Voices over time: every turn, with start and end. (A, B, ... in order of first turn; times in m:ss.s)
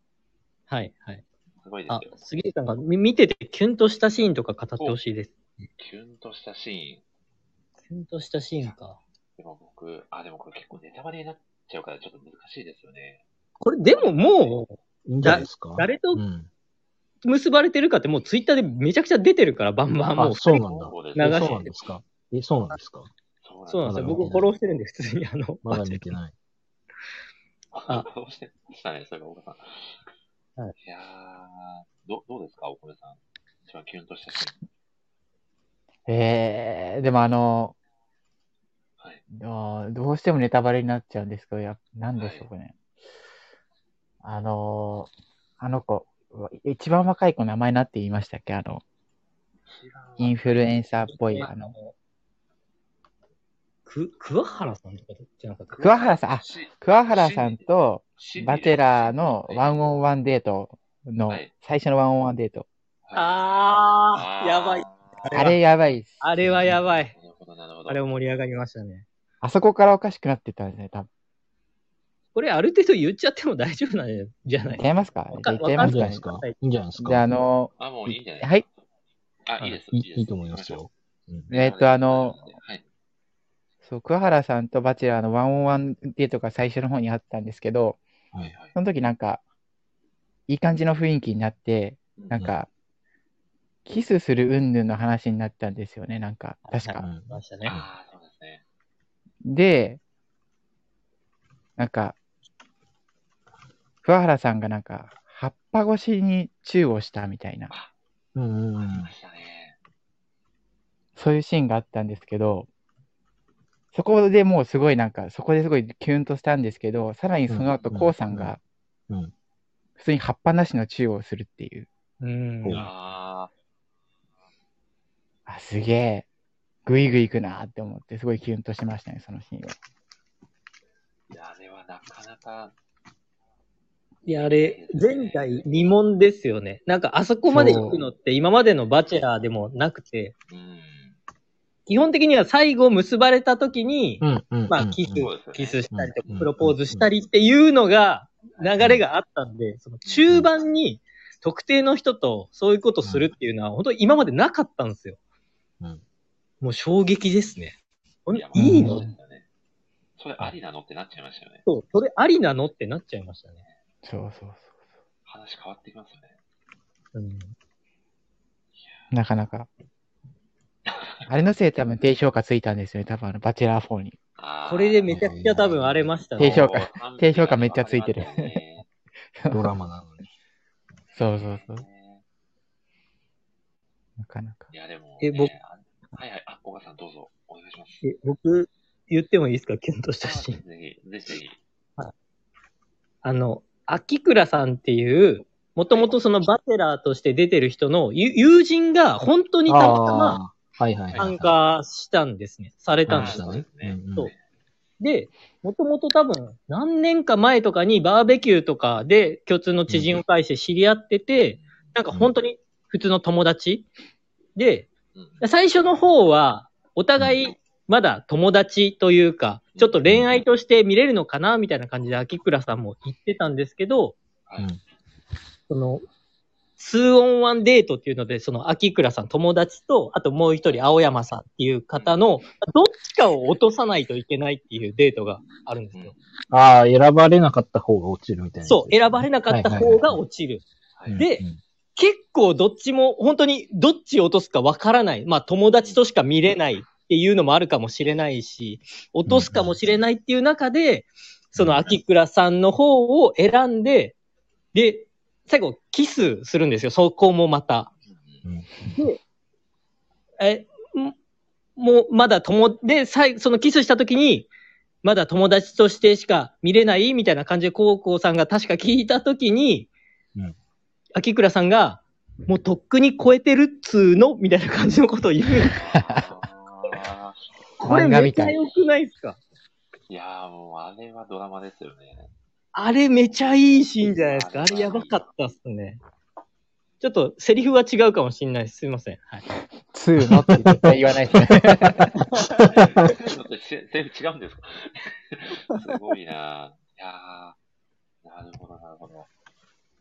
0:00.7-0:01.2 A
0:01.6-0:02.2 B
0:01.9-0:05.4 A
0:05.8-0:07.0 B
0:07.9-0:09.0 A
0:09.4-0:13.2 B
0:13.6-0:16.2 A
0:13.9-0:14.6 B
0:15.1-0:16.5 C
0:17.2-0:21.7 A
0:20.2-0:23.1 C
0:20.8-0:21.6 B
0:23.4-0:24.4 B
0:23.7-0:26.0 A
0:23.9-0:24.5 C
0:25.6-0:26.3 C
0:27.7-0:30.0 B
0:30.8-0:34.6 B
0:36.1-0:37.8 D
0:39.3-0:42.8 D
0:42.2-0:42.5 B
0:44.2-0:48.8 D
0:49.7-0:50.8 B
0:50.2-0:51.7 D
0:51.1-0:51.9 A
0:53.9-0:55.8 A
0:54.3-0:54.7 B
0:55.7-0:57.6 B
0:55.8-1:02.6 D
0:58.2-1:00.0 B
1:03.1-1:03.4 B
1:03.1-1:05.6 A
1:04.1-1:05.4 B
1:05.3-1:06.2 D
1:06.2-1:07.1 A
1:06.4-1:06.8 C
1:07.1-1:08.0 B
1:07.9-1:09.0 A
1:09.4-1:11.1 D
1:12.4-1:16.6 A
1:14.8-1:16.2 D
1:15.8-1:17.3 C
1:17.0-1:18.6 D
1:17.8-1:18.7 B
1:19.5-1:20.8 B
1:19.9-1:21.5 C
1:21.5-1:22.8 B
1:21.5-1:22.5 D
1:23.8-1:28.0 D
1:28.4-1:28.8 B
1:28.7-1:29.4 D
1:30.5-1:32.7 D
1:33.9-1:37.1 D
1:36.7-1:37.7 A
1:37.0-1:37.9 C
1:37.6-1:38.6 B
1:39.4-1:40.0 D
1:41.8-1:42.2 D
1:44.0-1:47.7 D
1:48.4-1:49.1 C
1:48.8-1:49.8 B
1:51.2-1:52.7 D
1:53.9-1:58.6 D
1:57.5-1:58.5 C
2:00.0-2:01.9 D
2:02.2-2:02.9 A
2:02.6-2:02.9 C
2:02.7-2:03.5 B
2:05.5-2:06.3 D
2:06.9-2:09.8 D
2:11.3-2:12.8 B
2:14.3-2:20.3 A
2:14.4-2:15.9 B
2:17.5-2:18.0 D
2:17.5-2:17.9 C
2:20.5-2:21.2 B
2:21.9-2:35.2 A
2:24.2-2:25.3 C
2:25.2-2:26.4 B
2:25.9-2:27.1 C
2:28.8-2:29.0 C
2:30.0-2:30.4 B
2:33.0-2:33.3 C
2:36.6-2:39.1 A
2:38.3-2:39.5 B
2:38.6-2:39.0 C
2:38.6-2:39.1 D
2:40.2-2:41.6 B
2:41.6-2:43.6 A
2:44.0-2:44.7 D
2:45.2-2:46.4 B
2:47.1-2:47.5 A
2:48.8-2:49.1 B
2:49.1-2:49.7 D
2:50.9-2:51.2 B
2:51.3-2:54.2 D
2:54.4-2:55.2 B
2:54.6-2:56.6 A
2:55.1-2:56.2 C
2:56.4-2:58.6 D
2:56.4-2:58.9 B
2:59.4-2:59.7 D
2:59.5-3:00.2 C
3:01.1-3:02.2 B
3:01.2-3:01.8 D
3:04.2-3:04.7 D
3:04.7-3:08.1 B
3:05.2-3:05.5 A
3:08.0-3:10.6 A
3:10.2-3:11.6 B
3:13.2-3:20.4 A
3:15.9-3:16.2 B
3:19.7-3:21.5 C
3:21.2-3:23.4 A
3:23.1-3:24.3 C
3:23.1-3:24.4 B
3:25.0-3:33.9 A
3:29.9-3:30.2 C
3:34.6-3:34.9 A
3:35.2-3:35.4 B
3:35.4-3:44.2 A
3:37.2-3:37.4 C
3:40.1-3:40.4 C
3:45.7-3:46.0 A
3:46.8-3:56.1 A
3:51.9-3:52.2 B
3:56.5-4:00.2 C
3:58.6-4:00.6 A
4:01.0-4:01.2 B
4:01.1-4:01.6 C
4:01.2-4:01.4 A
4:02.0-4:14.2 A
4:09.3-4:09.8 C
4:11.6-4:11.9 C
4:14.7-4:17.9 A
4:18.1-4:18.4 B
4:18.4-4:19.0 C
4:20.4-4:21.2 A
4:21.8-4:24.5 A
4:25.0-4:29.9 A
4:31.2-4:35.7 A
4:35.8-4:37.5 B
4:35.8-4:36.2 D
4:37.8-4:39.4 A
4:37.8-4:38.5 D
4:40.1-4:42.3 B
4:42.7-4:46.0 A
4:43.4-4:45.2 B
4:47.0-4:49.4 A
4:49.9-4:52.1 D
4:50.2-4:50.9 C
4:52.6-4:57.6 B
4:58.2-4:59.3 B